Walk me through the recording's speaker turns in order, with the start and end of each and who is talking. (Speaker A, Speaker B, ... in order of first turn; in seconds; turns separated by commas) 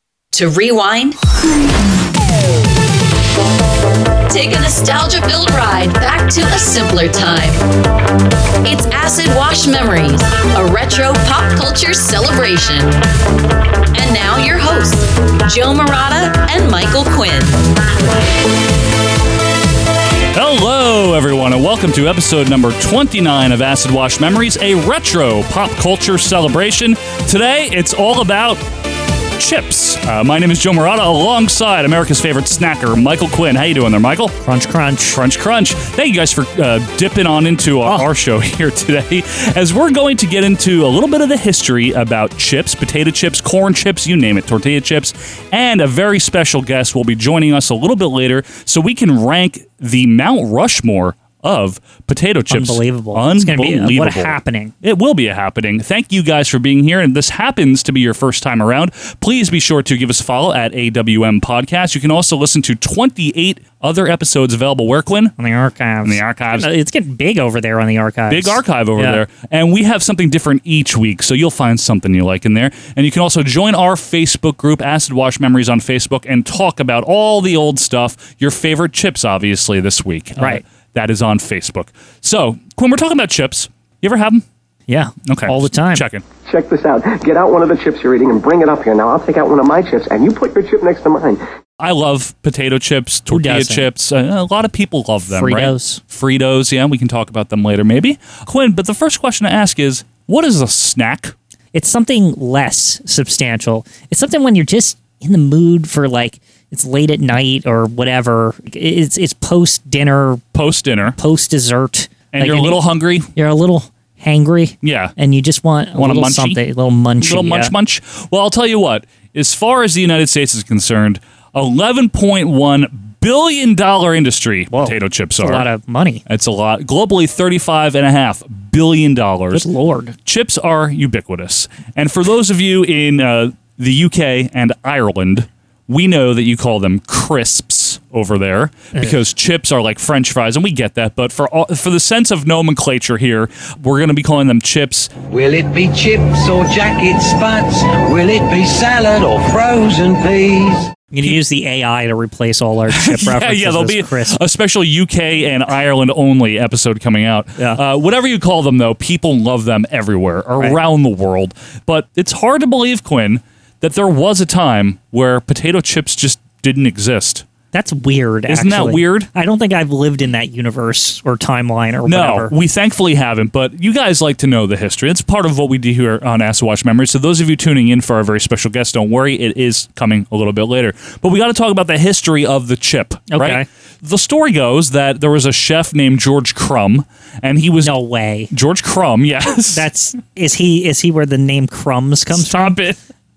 Speaker A: 0.3-1.6, Speaker A: 4.3-7.6, Speaker A: 8.6-13.0, Speaker A: 13.9-17.6, Speaker B: 20.3-28.6, Speaker B: 29.4-34.3, Speaker C: 34.4-35.2, Speaker B: 35.1-65.3, Speaker C: 52.5-54.7, Speaker C: 65.4-69.2, Speaker B: 66.0-66.7, Speaker B: 68.3-84.4, Speaker C: 80.4-80.6, Speaker C: 84.9-86.0, Speaker B: 85.3-86.2, Speaker D: 86.5-91.4, Speaker B: 91.8-101.3, Speaker C: 93.3-93.9, Speaker C: 95.3-96.0, Speaker C: 101.7-110.4, Speaker B: 110.5-111.2, Speaker C: 111.2-112.8, Speaker B: 112.3-113.3, Speaker C: 113.3-117.7, Speaker B: 114.8-115.1, Speaker B: 115.9-116.6, Speaker B: 117.2-125.7, Speaker C: 124.7-126.2, Speaker B: 126.3-129.7, Speaker C: 129.5-130.2, Speaker B: 130.2-145.1, Speaker C: 138.9-139.2, Speaker E: 145.3-150.8, Speaker C: 151.1-154.4, Speaker B: 152.9-167.4, Speaker C: 167.7-172.5, Speaker B: 168.5-169.3, Speaker B: 172.0-187.9, Speaker C: 183.3-183.7, Speaker C: 187.8-188.5, Speaker B: 188.5-189.9, Speaker C: 189.7-192.7, Speaker B: 192.3-193.0